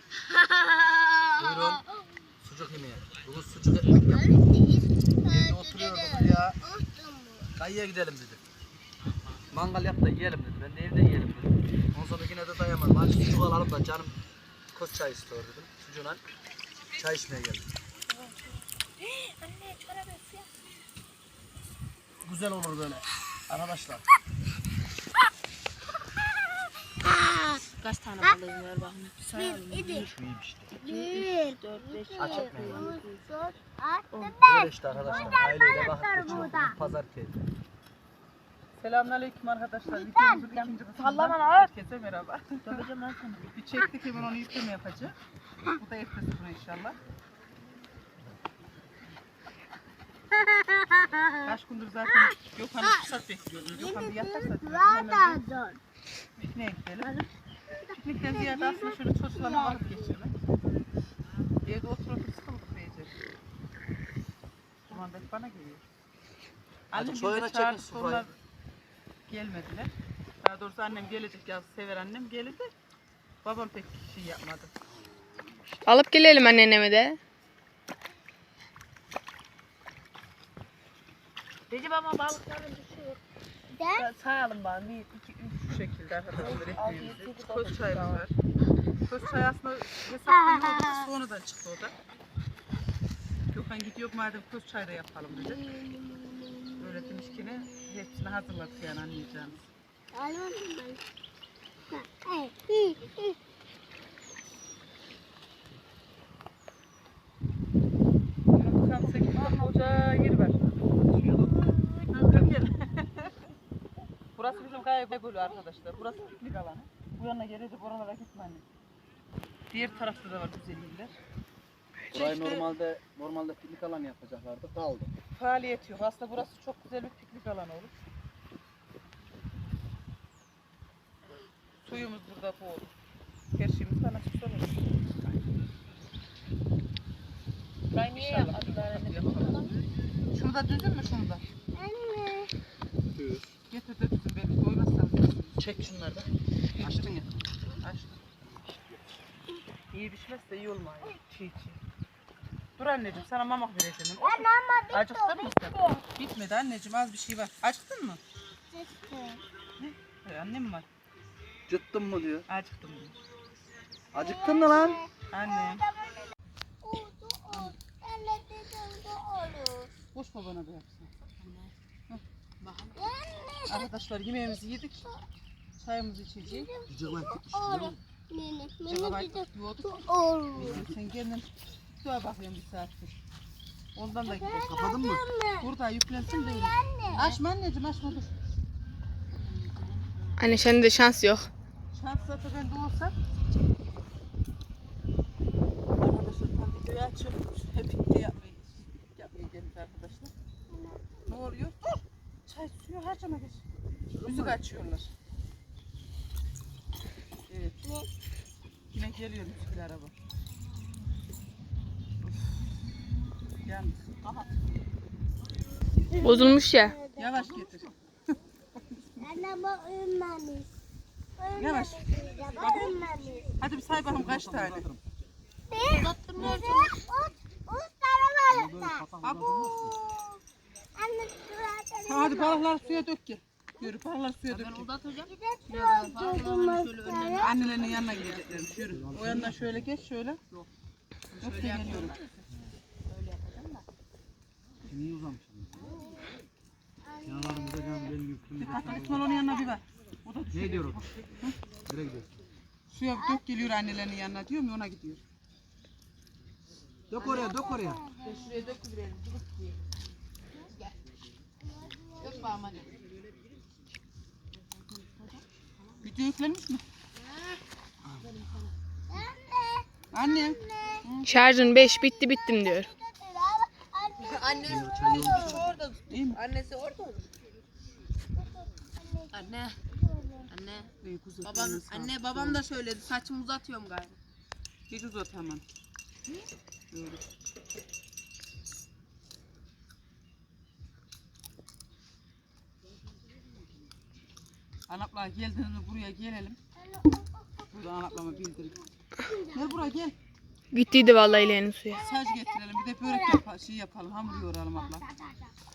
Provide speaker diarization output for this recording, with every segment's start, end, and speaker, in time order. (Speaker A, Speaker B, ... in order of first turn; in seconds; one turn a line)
Speaker A: 0.3-1.6
Speaker B: 1.4-1.8
Speaker B: 2.4-4.4
Speaker A: 4.1-7.5
Speaker B: 5.2-6.6
Speaker B: 7.5-8.4
Speaker B: 9.5-14.2
Speaker B: 14.7-16.2
Speaker B: 17.0-17.7
Speaker C: 19.0-20.5
Speaker B: 22.2-24.1
Speaker A: 27.1-27.6
Speaker C: 27.7-30.1
Speaker A: 29.3-30.1
Speaker B: 29.8-30.8
Speaker C: 30.8-33.2
Speaker A: 30.8-36.8
Speaker B: 32.2-33.0
Speaker B: 34.4-37.4
Speaker C: 34.9-35.5
Speaker D: 36.2-36.6
Speaker D: 38.8-42.8
Speaker A: 40.0-40.4
Speaker C: 40.6-41.7
Speaker C: 42.6-43.5
Speaker D: 43.5-45.1
Speaker D: 45.7-47.0
Speaker A: 50.3-51.4
Speaker D: 51.4-55.4
Speaker A: 53.7-55.8
Speaker D: 56.4-57.3
Speaker D: 58.0-60.3
Speaker A: 58.2-60.0
Speaker D: 61.6-63.1
Speaker D: 64.9-65.8
Speaker D: 66.9-68.3
Speaker B: 66.9-68.3
Speaker D: 69.3-72.7
Speaker D: 73.4-74.7
Speaker E: 75.8-77.2
Speaker C: 81.7-83.2
Speaker A: 83.7-84.1
Speaker C: 83.9-85.8
Speaker D: 85.6-88.3
Speaker C: 86.3-88.2
Speaker D: 89.0-91.9
Speaker A: 90.4-91.1
Speaker D: 93.5-95.7
Speaker D: 96.7-99.6
Speaker A: 100.1-101.0
Speaker A: 101.9-103.3
Speaker D: 108.5-110.7
Speaker A: 111.5-112.3
Speaker D: 112.1-113.3
Speaker D: 114.3-118.6
Speaker D: 119.7-121.1
Speaker D: 122.1-122.7
Speaker B: 122.1-125.1
Speaker D: 125.3-127.9
Speaker D: 131.8-132.9
Speaker D: 133.5-134.8
Speaker C: 137.9-139.7
Speaker D: 138.1-139.7
Speaker D: 140.3-141.4
Speaker A: 141.8-142.5
Speaker B: 143.1-143.5
Speaker D: 143.7-146.2
Speaker B: 145.6-146.2
Speaker D: 146.8-147.2
Speaker B: 146.8-147.4
Speaker D: 147.8-148.2
Speaker D: 149.9-151.8
Speaker D: 152.8-158.2
Speaker A: 154.2-156.0
Speaker A: 158.7-159.4
Speaker D: 159.8-160.9
Speaker B: 161.7-162.4
Speaker D: 162.5-163.2
Speaker B: 164.1-165.0
Speaker A: 164.1-165.1
Speaker D: 165.3-165.9
Speaker A: 166.8-169.9
Speaker D: 170.1-171.1
Speaker C: 171.4-171.7
Speaker C: 172.6-173.2
Speaker A: 172.9-173.9
Speaker D: 173.7-175.1
Speaker D: 175.8-176.7
Speaker A: 176.5-180.8
Speaker B: 176.9-178.0
Speaker D: 178.8-180.1
Speaker B: 180.5-180.9
Speaker D: 180.6-183.2
Speaker D: 183.9-184.8
Speaker A: 184.2-185.7
Speaker B: 184.5-185.2
Speaker D: 185.6-188.3
Speaker A: 186.3-187.3
Speaker E: 190.4-191.5
Speaker D: 191.9-193.1
Speaker D: 196.0-200.3
Speaker A: 200.7-201.0
Speaker D: 201.2-203.6
Speaker D: 204.2-205.1
Speaker D: 207.5-207.8
Speaker D: 208.9-210.1
Speaker D: 213.6-214.5
Speaker A: 216.2-217.2
Speaker E: 216.2-216.9
Speaker D: 217.2-217.9
Speaker A: 219.2-220.7
Speaker A: 221.4-223.5
Speaker D: 221.6-224.9
Speaker B: 224.0-225.0
Speaker A: 225.7-229.0
Speaker C: 225.8-226.9
Speaker B: 228.5-230.0
Speaker D: 229.2-229.8
Speaker A: 229.7-230.4
Speaker A: 230.9-232.8
Speaker D: 232.1-234.8
Speaker C: 234.5-238.8
Speaker A: 235.3-237.5
Speaker D: 237.4-240.4
Speaker B: 238.9-239.9
Speaker C: 241.3-242.5
Speaker D: 241.4-242.1
Speaker C: 243.1-243.8
Speaker B: 244.8-245.9
Speaker A: 247.2-248.1
Speaker B: 247.2-249.3
Speaker D: 248.6-251.6
Speaker A: 248.7-249.6
Speaker B: 250.5-251.0
Speaker B: 251.8-252.3
Speaker D: 252.9-255.2
Speaker B: 257.1-258.1
Speaker C: 257.1-257.6
Speaker A: 257.4-258.4
Speaker C: 258.2-259.8
Speaker C: 260.6-260.9
Speaker C: 262.2-262.9
Speaker C: 265.1-265.4
Speaker D: 266.0-266.8
Speaker A: 269.1-270.0
Speaker D: 270.1-271.3
Speaker A: 270.7-270.9
Speaker E: 271.2-272.9
Speaker A: 271.9-275.6
Speaker C: 274.2-277.3
Speaker B: 274.6-275.6
Speaker D: 276.1-276.4
Speaker A: 278.9-279.3
Speaker C: 279.3-279.8
Speaker A: 280.1-280.4
Speaker C: 280.5-280.9
Speaker D: 281.0-282.6
Speaker C: 281.4-284.2
Speaker D: 284.9-285.6
Speaker D: 286.9-287.2
Speaker D: 294.9-296.6
Speaker D: 297.7-298.8
Speaker D: 299.4-300.1
Speaker E: 300.7-302.0
Speaker D: 301.9-305.1